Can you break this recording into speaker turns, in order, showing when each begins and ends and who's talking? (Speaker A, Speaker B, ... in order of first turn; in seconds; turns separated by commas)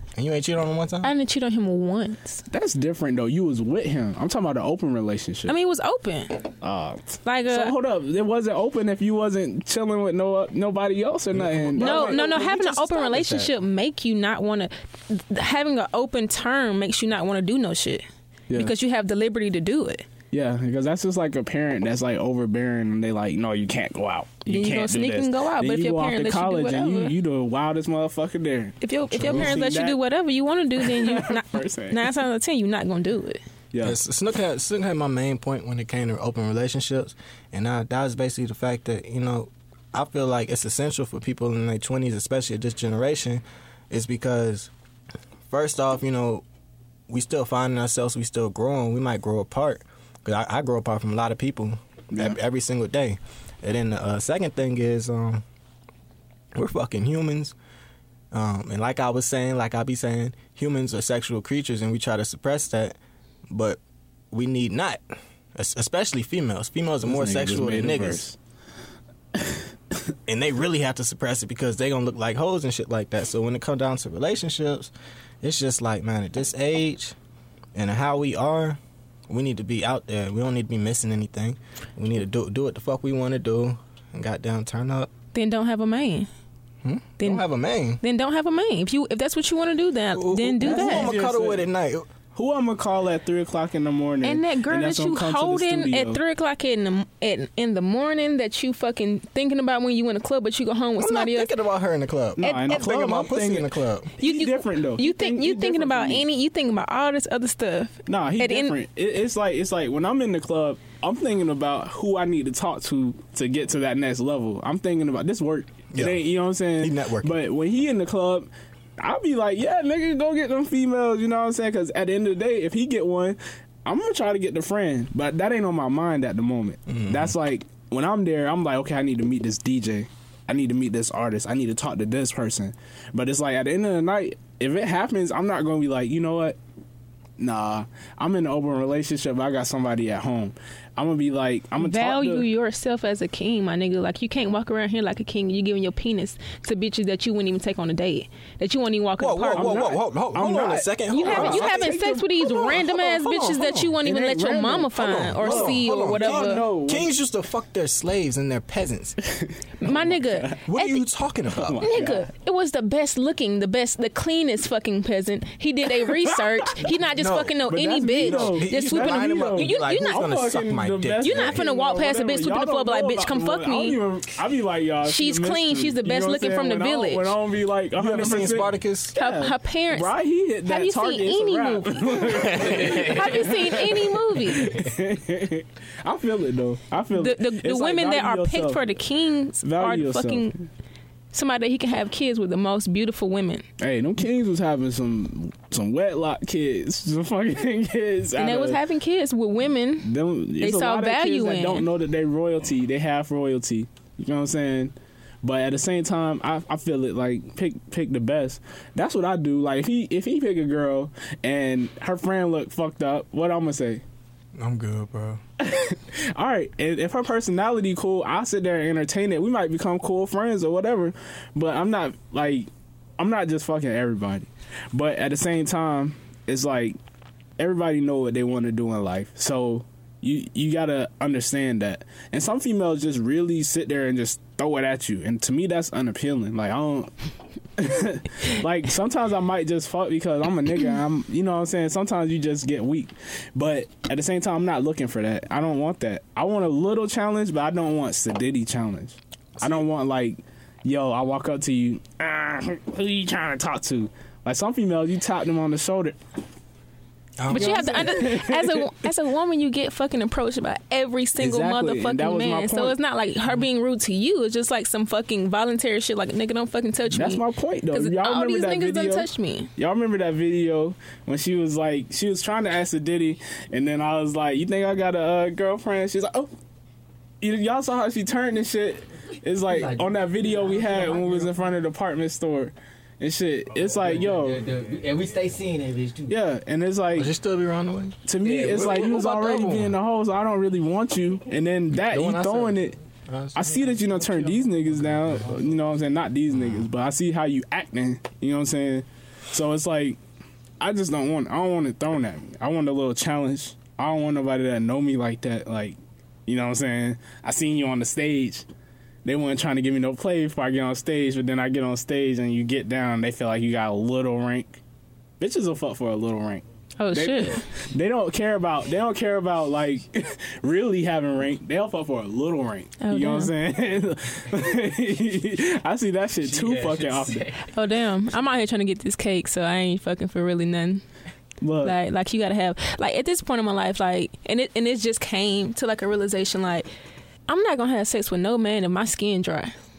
Speaker A: 0.2-1.1, Speaker B: 1.0-2.4, Speaker C: 2.5-5.5, Speaker B: 5.5-6.4, Speaker C: 6.6-12.4, Speaker B: 7.2-7.7, Speaker A: 11.3-13.5, Speaker B: 11.8-20.1, Speaker C: 20.3-30.0, Speaker B: 24.5-27.1, Speaker B: 28.8-33.4, Speaker A: 29.1-29.6, Speaker C: 30.8-32.0, Speaker C: 33.7-34.0, Speaker A: 33.8-44.7, Speaker A: 45.5-46.4, Speaker A: 47.1-55.4, Speaker C: 52.1-52.4, Speaker A: 56.5-57.5, Speaker A: 58.3-63.0, Speaker A: 63.5-63.8, Speaker A: 64.3-65.0, Speaker A: 65.5-68.2, Speaker C: 67.0-68.4, Speaker C: 69.3-69.6, Speaker A: 70.3-74.9, Speaker A: 75.4-77.2, Speaker A: 77.8-85.1, Speaker B: 85.3-86.3, Speaker A: 86.8-88.0, Speaker B: 88.0-91.1, Speaker A: 90.1-92.1, Speaker C: 90.6-91.7, Speaker C: 92.3-96.2, Speaker B: 94.2-101.5, Speaker A: 101.0-104.1, Speaker C: 102.4-106.2, Speaker B: 102.4-102.9, Speaker B: 104.2-108.8, Speaker C: 108.1-136.6, Speaker A: 115.9-116.2, Speaker A: 116.8-117.4, Speaker A: 126.9-127.3, Speaker C: 137.4-142.5, Speaker B: 141.8-150.0, Speaker A: 149.2-153.9, Speaker C: 149.6-152.6, Speaker B: 151.1-156.6, Speaker C: 153.9-157.1, Speaker A: 155.0-159.2, Speaker C: 159.3-160.6, Speaker B: 159.8-161.0, Speaker A: 160.7-161.9, Speaker C: 161.5-162.3, Speaker B: 161.8-170.3, Speaker C: 166.2-166.7, Speaker A: 167.2-167.6, Speaker C: 167.7-188.8, Speaker A: 168.2-171.6, Speaker B: 171.2-174.0, Speaker B: 175.1-177.3, Speaker A: 178.0-179.2, Speaker B: 179.2-180.1, Speaker B: 180.7-184.8, Speaker A: 182.4-183.2, Speaker B: 187.2-190.5, Speaker C: 189.6-190.7, Speaker B: 191.3-193.7, Speaker C: 193.8-198.8, Speaker B: 198.4-200.1, Speaker C: 200.0-214.0, Speaker B: 200.6-201.9, Speaker A: 214.6-215.4, Speaker C: 215.6-222.7, Speaker C: 223.2-227.0, Speaker C: 227.6-237.1, Speaker C: 237.8-256.2, Speaker A: 249.6-249.8, Speaker A: 257.4-258.2, Speaker B: 257.5-267.4, Speaker C: 257.5-259.1, Speaker C: 261.4-263.0, Speaker C: 267.1-276.5, Speaker B: 267.9-269.7, Speaker C: 277.4-284.7, Speaker D: 279.7-281.7, Speaker D: 283.8-286.4, Speaker C: 286.3-287.3, Speaker A: 287.2-290.0, Speaker C: 288.3-293.0, Speaker D: 288.4-289.0, Speaker A: 291.9-294.6, Speaker C: 293.6-300.2, Speaker A: 296.5-296.9, Speaker C: 300.8-308.7, Speaker C: 309.2-314.8, Speaker C: 315.4-327.5, Speaker B: 317.0-317.6, Speaker B: 323.0-323.5, Speaker D: 326.4-327.6, Speaker B: 327.7-331.0, Speaker C: 331.6-331.9, Speaker B: 331.8-336.9, Speaker B: 337.5-339.8